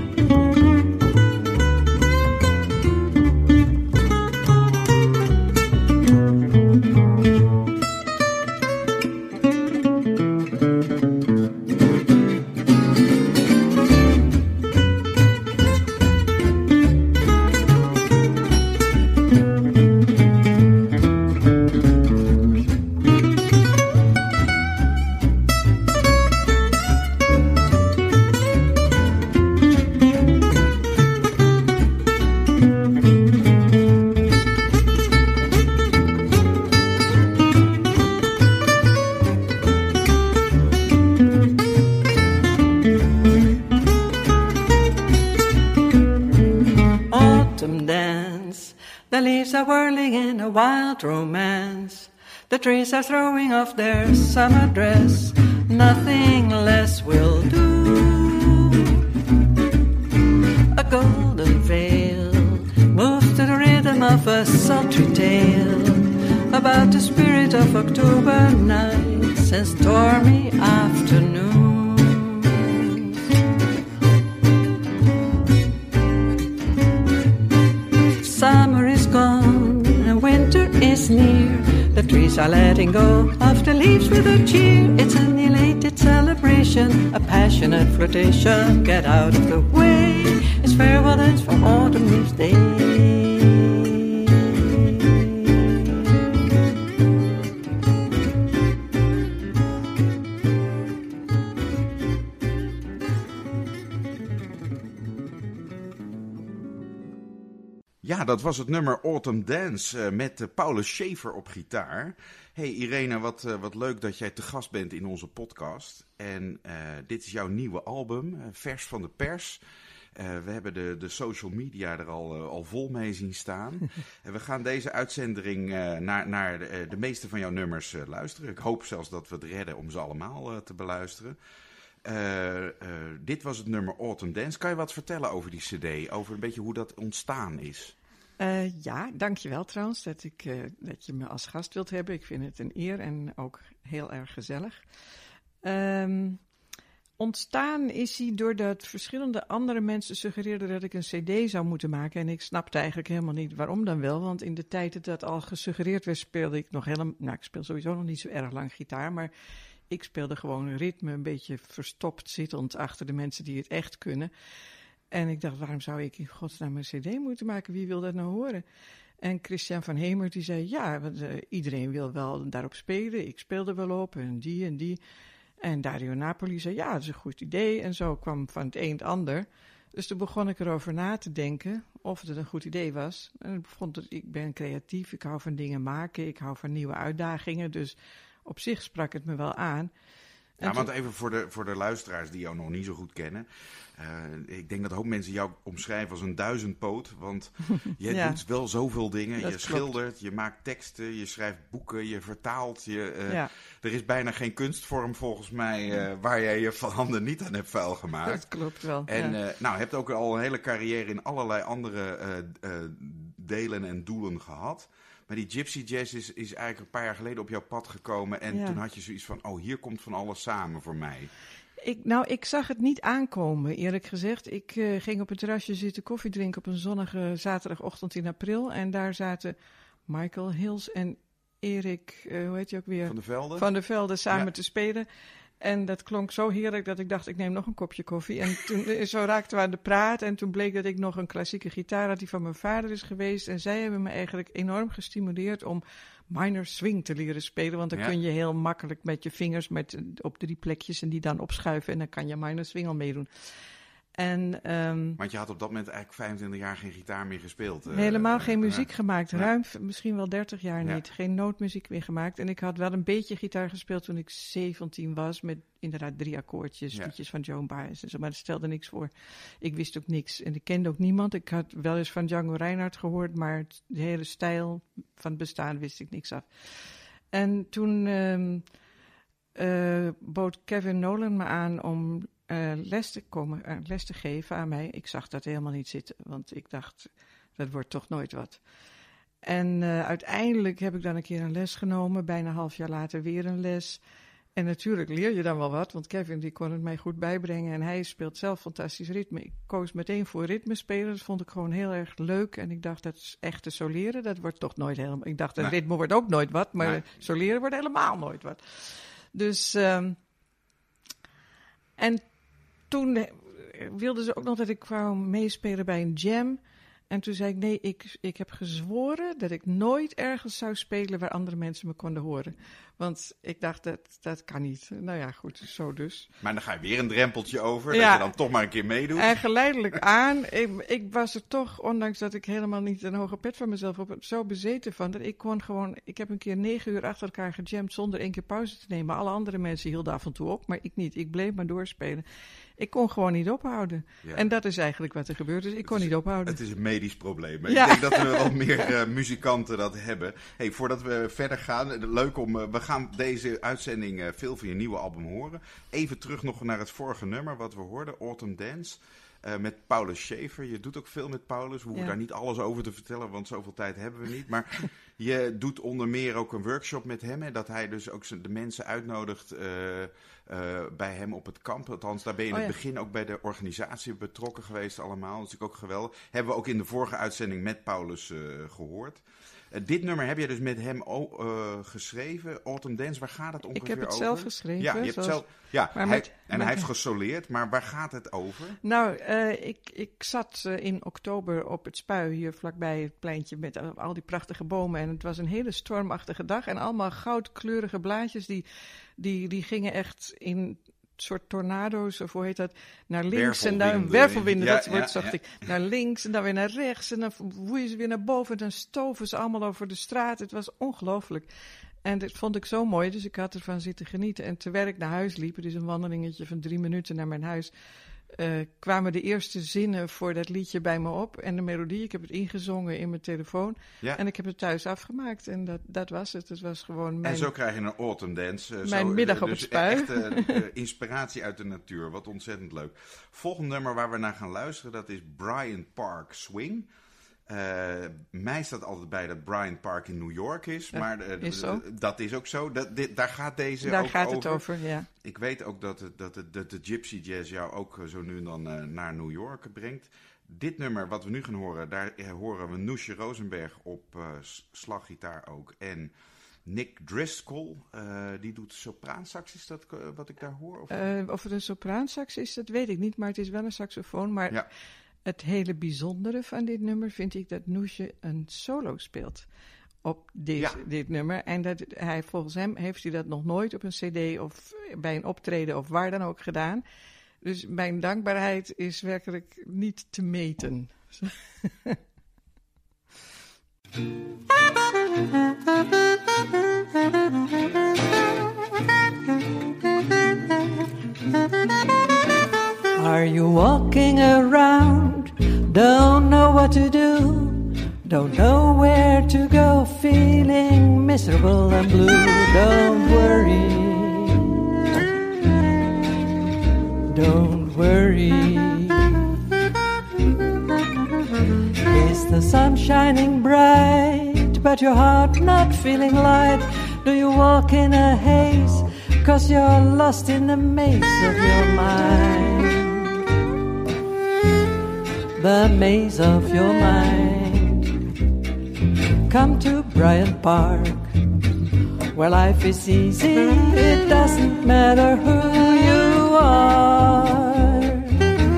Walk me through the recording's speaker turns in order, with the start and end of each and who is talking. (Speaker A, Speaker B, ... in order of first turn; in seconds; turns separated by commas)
Speaker A: 47.1-59.0, Speaker A: 60.7-73.2, Speaker A: 78.2-96.0, Speaker B: 108.0-119.6, Speaker B: 120.1-131.4, Speaker B: 132.0-137.9, Speaker C: 138.4-144.8, Speaker C: 145.6-146.4, Speaker C: 147.2-159.3, Speaker C: 159.9-164.3, Speaker C: 165.1-168.6, Speaker C: 169.2-175.0, Speaker C: 175.6-189.9, Speaker C: 190.6-190.9, Speaker B: 190.6-208.4, Speaker C: 198.1-198.4, Speaker C: 199.4-199.9, Speaker C: 208.2-209.4, Speaker B: 209.1-221.3, Speaker C: 218.5-218.8, Speaker C: 221.8-229.6, Speaker C: 230.1-235.1, Speaker B: 233.1-233.7, Speaker C: 235.6-253.3, Speaker C: 254.2-255.2, Speaker B: 255.2-259.5, Speaker C: 257.9-278.7, Speaker C: 279.6-288.6, Speaker C: 289.4-294.0, Speaker C: 294.6-308.8, Speaker C: 309.3-310.2, Speaker C: 312.0-312.3, Speaker C: 312.9-316.6, Speaker C: 317.1-326.3, Speaker B: 326.4-329.3, Speaker C: 327.9-328.3, Speaker C: 329.1-342.2, Speaker C: 342.8-346.6, Speaker B: 345.9-388.8, Speaker C: 347.7-348.5, Speaker C: 383.8-386.9, Speaker C: 388.8-398.6, Speaker C: 399.2-411.5, Speaker B: 403.3-405.4, Speaker C: 412.0-417.7, Speaker C: 418.3-427.5, Speaker B: 427.2-436.9, Speaker C: 428.9-430.6, Speaker B: 437.5-444.6, Speaker C: 440.9-441.8, Speaker C: 443.8-445.1, Speaker B: 445.2-456.1, Speaker B: 456.6-461.0, Speaker C: 460.9-464.6, Speaker C: 465.2-469.5, Speaker C: 470.0-476.8, Speaker C: 477.4-482.0, Speaker A: 492.9-504.9, Speaker A: 507.1-509.3, Speaker A: 511.9-523.2, Speaker A: 525.4-528.0, Speaker A: 529.3-531.1, Speaker A: 532.1-538.3